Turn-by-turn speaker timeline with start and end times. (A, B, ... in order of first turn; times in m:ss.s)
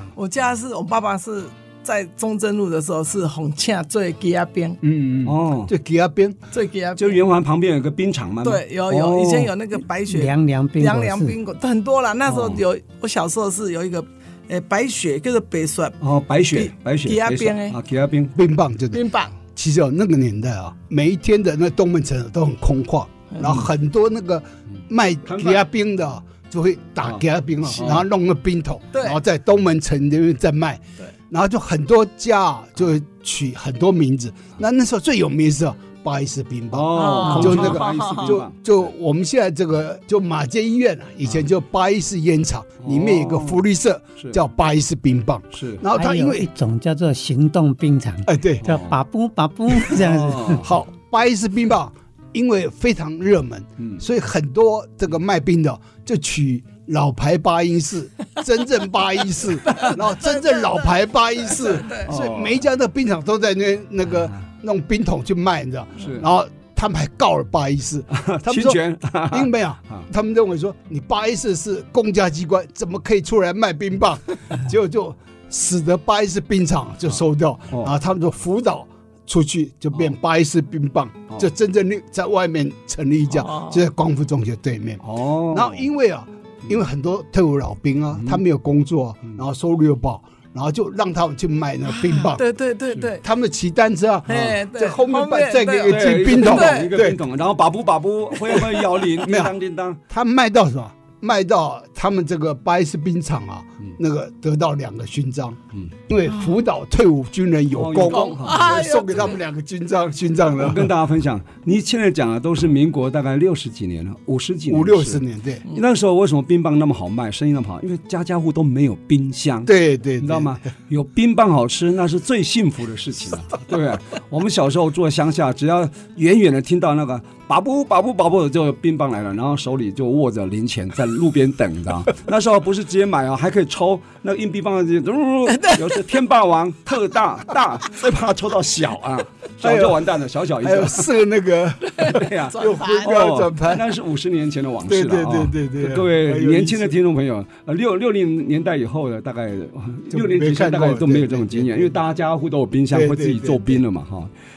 0:00.2-0:04.8 A
0:04.8-0:06.4 B
0:05.2-0:05.7 C
0:06.5-0:07.2 A
0:07.0-0:09.5 C
0:08.4-0:16.0 A
0:10.1-0:11.4 D
0:12.3-0:12.6 C
0:16.0-0:18.3 C
0:16.5-0:17.8 A
0:18.4-0:46.5 B
0:18.9-0:19.3 A
0:25.3-0:25.6 C
0:27.0-0:28.0 C
0:28.9-0:29.2 A
0:36.7-0:38.6 C
0:36.9-0:38.4 A
0:37.3-0:37.6 D
0:42.8-0:43.6 C
0:45.5-0:45.8 C
0:45.9-0:50.6 D
0:48.3-0:48.7 B
0:48.6-0:49.0 C
0:49.9-0:50.7 C
0:50.6-1:32.4 B
0:59.7-1:02.1 A
1:02.1-1:02.6 C
1:06.0-1:06.3 C
1:08.1-1:10.1 C
1:23.3-1:23.8 A
1:25.0-1:25.9 C
1:31.9-1:33.2 A
1:33.2-1:37.2 B
1:34.3-1:36.9 A
1:35.8-1:40.0 C
1:38.5-1:39.6 B
1:40.1-1:50.9 B
1:47.7-1:48.7 C
1:48.1-1:49.4 A
1:50.6-2:21.1 C
1:54.7-1:55.6 B
1:59.7-2:00.6 B
2:15.5-2:16.0 A
2:19.6-2:20.1 B
2:20.6-2:23.9 B
2:21.9-2:23.2 A
2:22.0-2:34.3 C
2:24.9-2:26.9 B
2:30.1-2:32.0 B
2:32.9-2:33.8 B